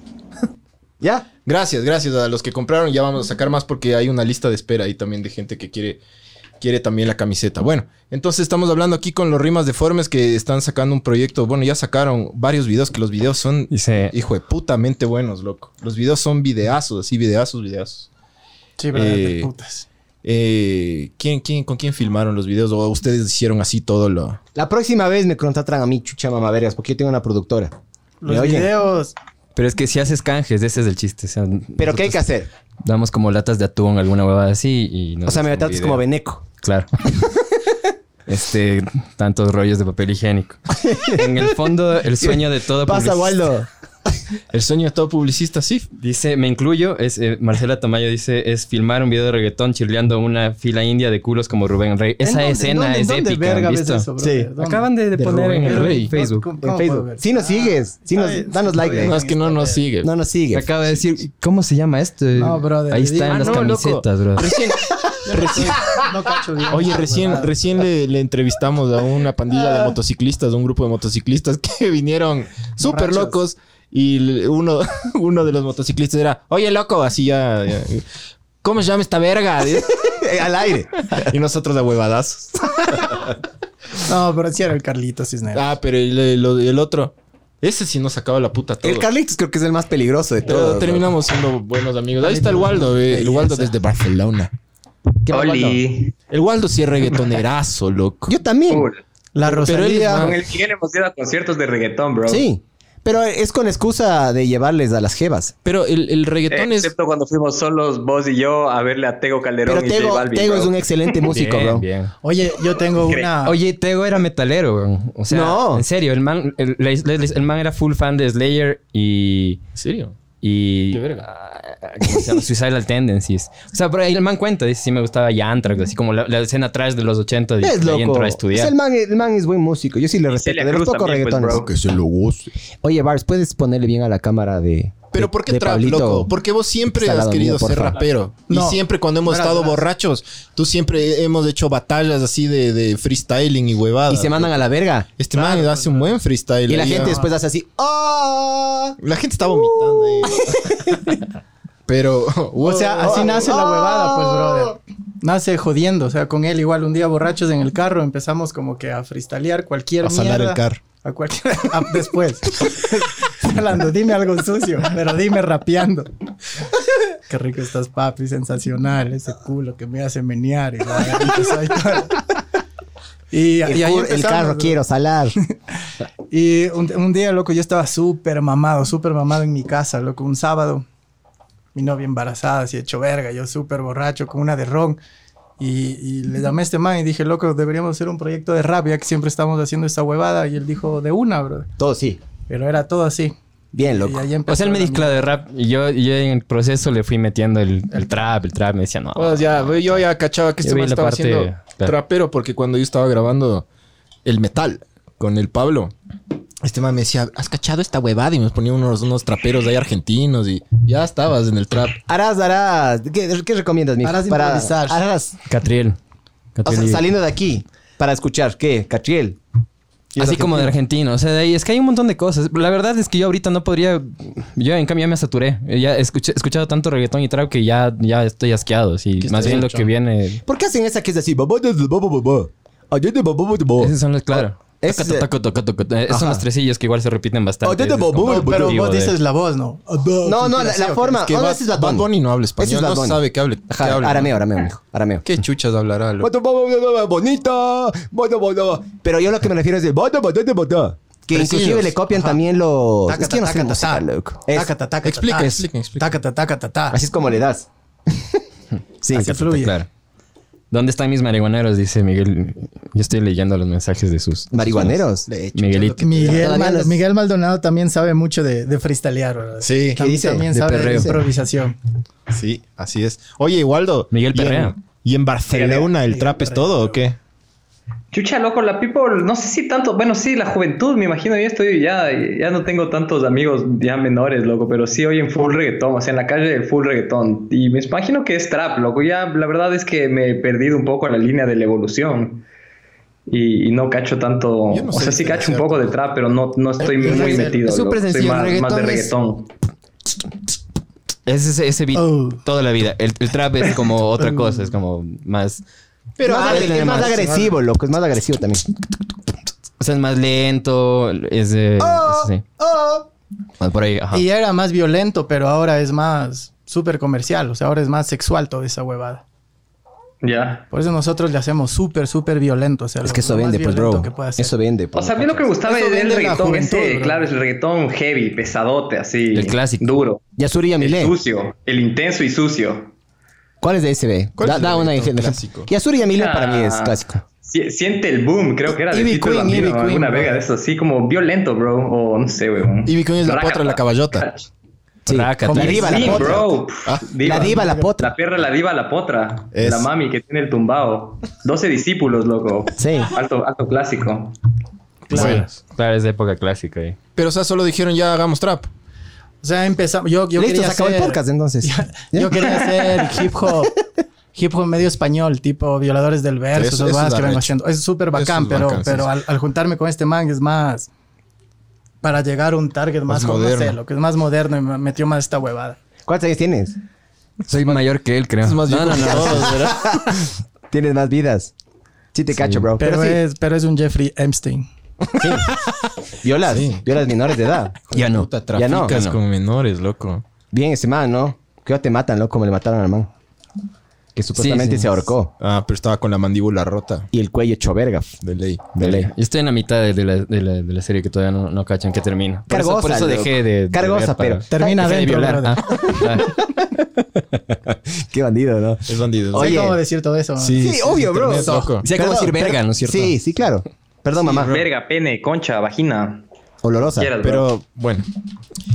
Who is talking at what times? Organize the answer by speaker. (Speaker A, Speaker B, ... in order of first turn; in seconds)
Speaker A: 1.0-1.2, 24.5-27.7, 28.2-28.7, 31.8-32.5, 35.2-36.4, 40.8-41.2, 42.2-43.7, 54.2-54.5, 56.6-59.2, 60.0-60.7, 80.0-81.2, 88.8-91.1, 93.1-93.7, 95.2-95.8, 98.3-98.9, 102.3-105.5, 109.7-111.8, 115.3-115.8, 127.6-131.6, 132.8-136.3, 136.9-138.0, 144.1-145.1, 146.7-148.9, 150.3-150.9, 153.0-154.7, 173.6-175.4, 191.8-192.2, 193.7-194.2, 212.1-215.4, 216.6-219.4, 220.1-220.7, 230.4-235.3, 236.1-236.4, 237.6-238.8, 240.2-245.2, 246.2-254.7, 256.9-258.4, 259.0-259.5, 264.5-265.3, 266.3-267.0, 269.9-271.1, 297.0-299.1, 306.2-308.7, 311.8-313.1, 323.0-325.5, 330.4-331.1, 333.6-337.2, 338.7-340.4, 345.1-346.5, 347.2-348.1, 352.8-353.1, 360.3-363.1, 376.1-376.8, 379.5-381.5, 382.1-383.2, 385.2-385.5, 386.2-389.1, 390.5-393.1, 394.1-395.3, 397.1-398.2, 398.8-399.1, 402.5-409.8, 410.5-414.5, 416.6-417.1
Speaker B: 1.4-6.0, 6.6-18.1, 18.9-19.5, 20.2-24.4, 44.5-45.9, 55.6-56.1, 59.0-60.1, 63.2-66.0, 66.7-78.0, 78.6-79.9, 81.1-83.3, 85.5-89.0, 90.4-94.5, 96.3-98.3, 99.5-100.4, 105.6-106.9, 119.8-120.1, 120.9-121.2, 131.5-132.5, 135.1-144.5, 145.2-147.3, 149.0-150.9, 151.9-153.4, 160.0-160.8, 199.1-203.7, 204.2-205.9, 206.6-212.0, 229.2-229.9, 241.2-244.3, 245.2-246.3, 251.3-251.9, 255.0-256.1, 265.2-266.5, 269.6-270.0, 272.3-277.2, 294.7-295.9, 306.2-307.5, 334.4-335.7, 342.8-344.2, 345.5-345.9, 346.8-347.1, 349.5-349.9, 355.1-355.5, 357.1-358.7, 366.5-367.5, 368.1-369.1, 373.1-373.8, 378.4-380.2, 386.5-386.8, 388.0-390.2, 395.4-397.1, 398.2-398.8, 408.9-409.7, 410.4-411.8, 414.3-414.6, 417.2-418.0
Speaker C: 13.7-14.1, 29.6-32.2, 32.8-36.0, 36.6-36.9, 38.3-43.4, 46.0-54.1, 54.6-56.5, 60.5-64.5, 111.3-112.1, 113.4-119.6, 120.4-128.7, 194.5-200.0, 200.6-201.9, 215.4-216.0, 216.5-217.0, 220.2-230.4, 233.8-239.2, 259.4-259.9, 260.7-264.8, 265.5-266.3, 270.5-271.2, 274.1-274.8, 297.6-298.5, 301.2-305.6, 306.3-307.1, 309.8-312.4, 313.6-314.2, 329.3-329.8, 345.1-346.3, 355.1-357.0, 377.5-379.6, 382.4-382.7, 387.9-388.3, 394.4-395.0, 398.8-406.4, 411.8-413.1
Speaker D: 18.8-19.9, 28.2-29.1, 52.2-59.8, 62.4-63.7, 65.3-67.8, 72.8-73.4, 84.0-85.7, 92.2-92.9, 99.3-100.3, 112.2-113.6, 138.5-139.8, 145.3-147.2, 152.6-166.1, 167.3-172.2, 173.3-174.8, 176.3-180.8, 181.7-185.0, 185.6-191.7, 192.5-195.3, 214.0-215.0, 238.2-241.4, 253.1-257.0, 259.1-259.7, 266.0-271.8, 276.0-277.0, 296.8-297.6, 301.9-302.4, 304.2-304.7, 314.1-319.2, 320.7-324.5, 325.6-327.3, 347.2-347.9, 355.1-355.4, 359.4-363.8, 364.3-370.9, 372.0-375.8, 382.8-384.7, 404.5-405.8, 409.3-410.9, 411.4-411.7
Speaker E: 95.3-96.1, 98.7-99.0, 100.2-102.4, 106.5-110.9, 112.9-113.3, 130.3-131.7, 275.5-275.9, 278.1-292.4, 293.3-299.5, 320.2-320.7, 324.9-330.2, 330.8-332.9, 336.0-344.5, 345.6-354.3, 414.3-416.2, 416.9-417.4